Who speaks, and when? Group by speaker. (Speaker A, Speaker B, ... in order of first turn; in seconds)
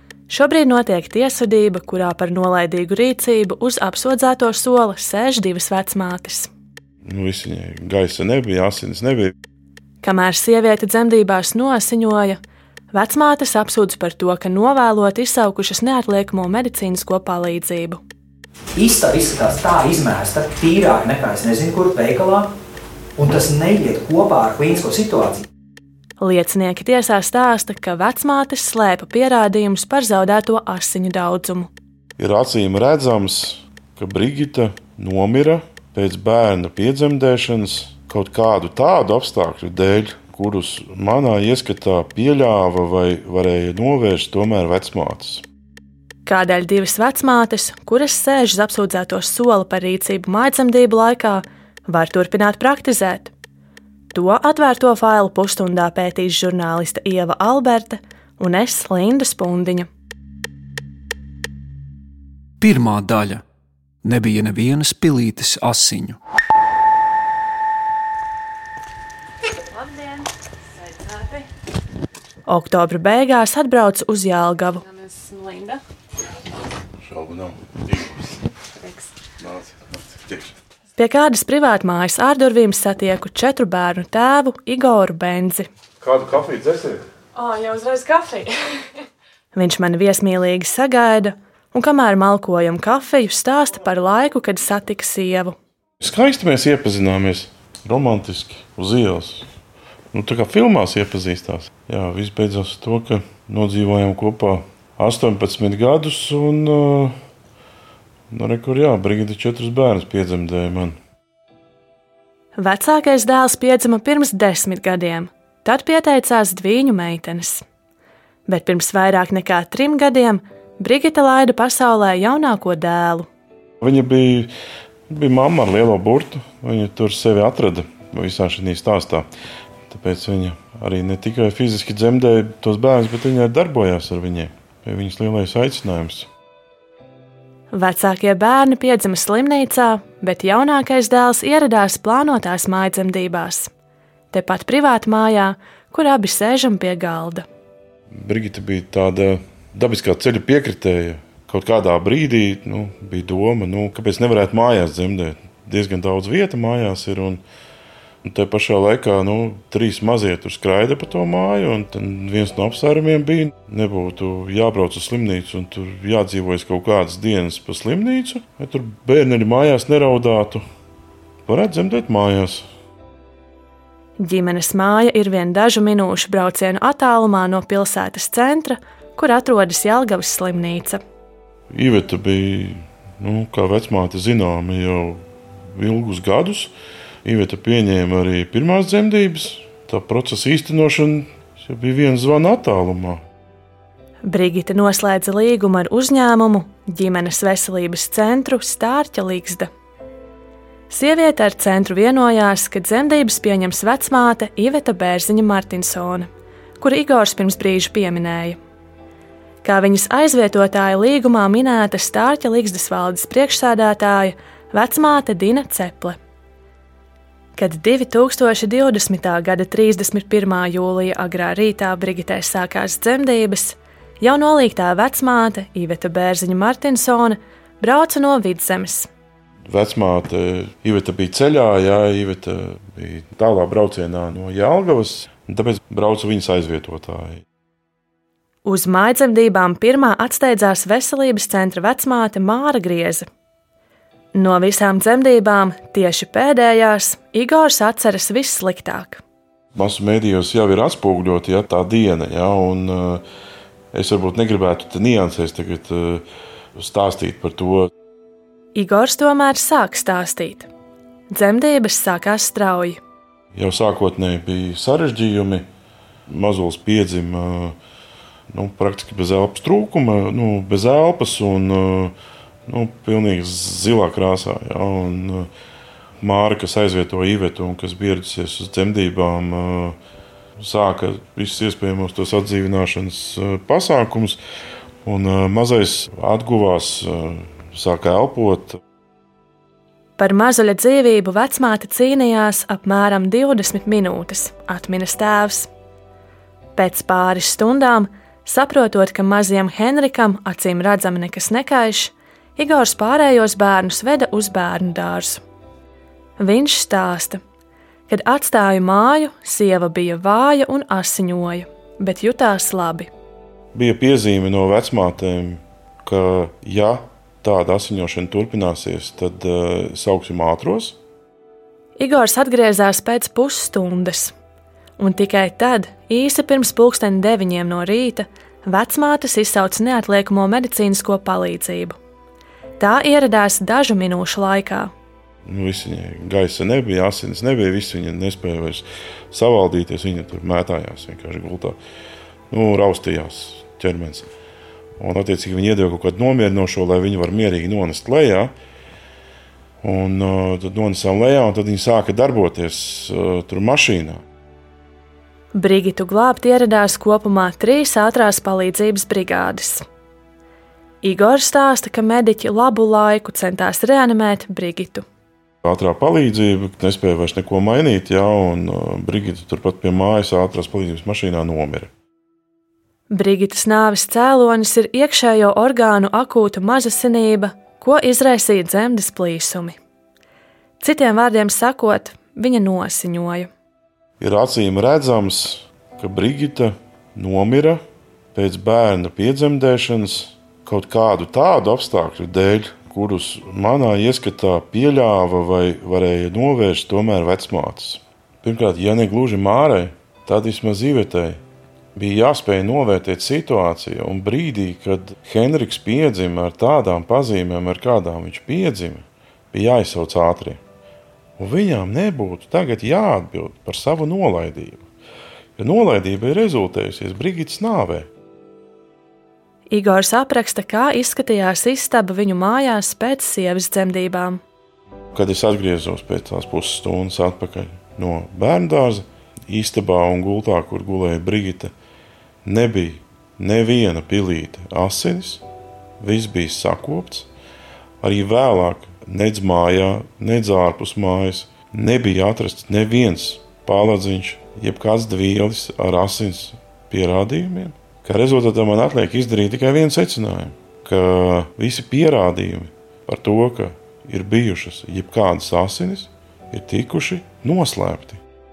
Speaker A: 0.3-6.5, 10.0-12.4, 12.9-18.0, 26.2-31.7, 46.3-53.3, 54.1-59.9, 72.5-74.8, 81.0-85.7, 89.5-95.6, 112.6-117.6, 118.5-123.3, 137.7-143.7, 144.3-147.4, 174.2-181.0, 194.2-199.7, 200.9-206.3, 206.8-208.6, 209.6-216.2, 217.6-229.1, 238.7-243.3, 244.3-249.2, 258.8-260.7, 261.3-263.0, 290.2-295.7, 296.8-305.4, 306.4-307.4, 308.1-313.1, 322.0-324.3, 325.0-332.0, 332.8-334.9, 355.5-359.8, 361.0-365.1, 373.1-379.8, 380.8-383.5, 419.7-424.4
Speaker B: 7.1-9.3, 32.2-45.4, 77.1-78.2, 79.4-80.5, 86.0-87.0, 96.0-99.5, 100.1-107.2, 108.3-111.0, 123.8-124.5, 125.1-129.3, 129.9-136.3, 148.2-157.4, 158.2-170.7, 171.5-172.7, 181.7-186.7, 187.2-193.2, 229.7-237.4, 249.8-253.2, 253.9-256.2, 256.8-257.9, 263.5-265.7, 266.3-267.8, 268.5-272.1, 272.7-275.5, 276.2-280.0, 280.6-284.4, 285.1-288.8, 313.7-321.0, 335.5-341.8, 342.5-344.3, 345.0-348.5, 349.8-354.2, 365.6-371.9, 384.2-387.8, 388.3-401.4, 402.0-410.6, 411.4-414.8, 415.6-418.1, 425.1-431.7, 432.4-435.4, 436.0-437.3, 438.0-458.2
Speaker C: 18.8-22.5, 23.2-25.5
Speaker D: 62.6-63.4, 64.0-66.2
Speaker E: 69.7-70.2, 70.8-71.5, 74.8-75.8, 78.8-79.1, 87.4-88.5